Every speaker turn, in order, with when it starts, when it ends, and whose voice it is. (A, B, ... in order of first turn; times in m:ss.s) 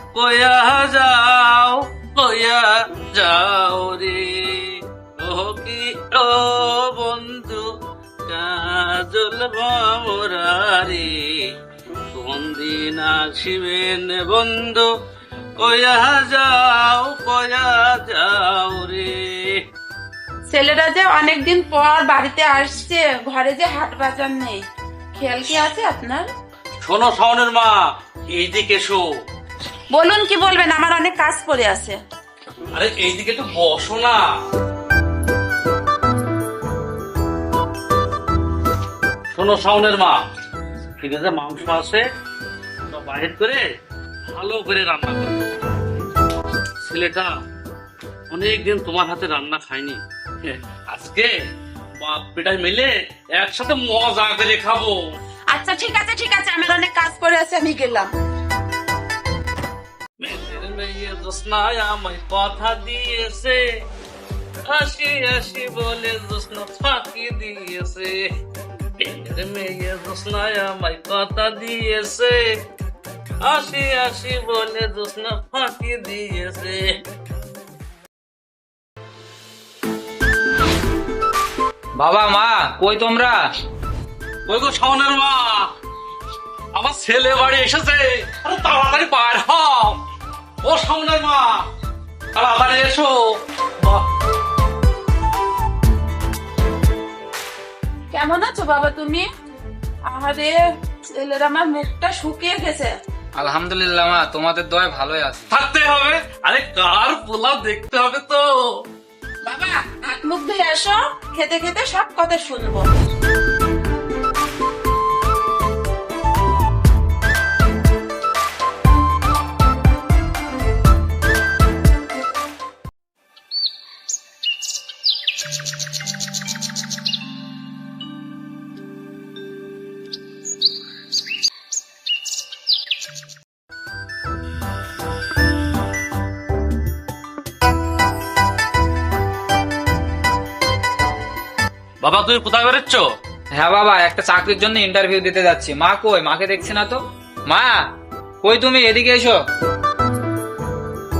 0:00.1-0:07.8 A
0:08.3-0:11.5 A
0:12.1-0:14.9 A
0:15.6-0:19.6 A
0:20.5-0:26.3 B
0:26.8-0:27.8 A
0:28.3-0:29.1 A
0:29.9-0:32.0 B
0:32.7-0:34.3 A
0:39.3-0:40.2 A
0:41.0-0:42.0 A
0:42.9-0:43.7 A
0:44.3-0:45.4 A
0:46.8-0:47.3 A
0:48.3-0:51.3 A
0:52.0-0:55.1 A
0:55.5-0:58.1 B
1:00.2-1:03.6 A
1:04.7-1:08.3 A
1:09.0-1:12.4 A
1:13.4-1:17.0 A
1:22.0-1:23.4 C
1:24.5-1:25.7 A
1:26.7-1:30.0 A
1:30.6-1:31.6 A
1:32.3-1:34.1 A
1:38.1-1:39.3 B
1:40.1-1:40.6 B
1:41.2-1:42.9 B
1:43.4-1:45.5 C
1:45.5-1:48.8 A
1:49.4-1:53.0 B
2:22.0-2:23.1 A
2:23.6-2:27.9 C
2:28.4-2:29.4 C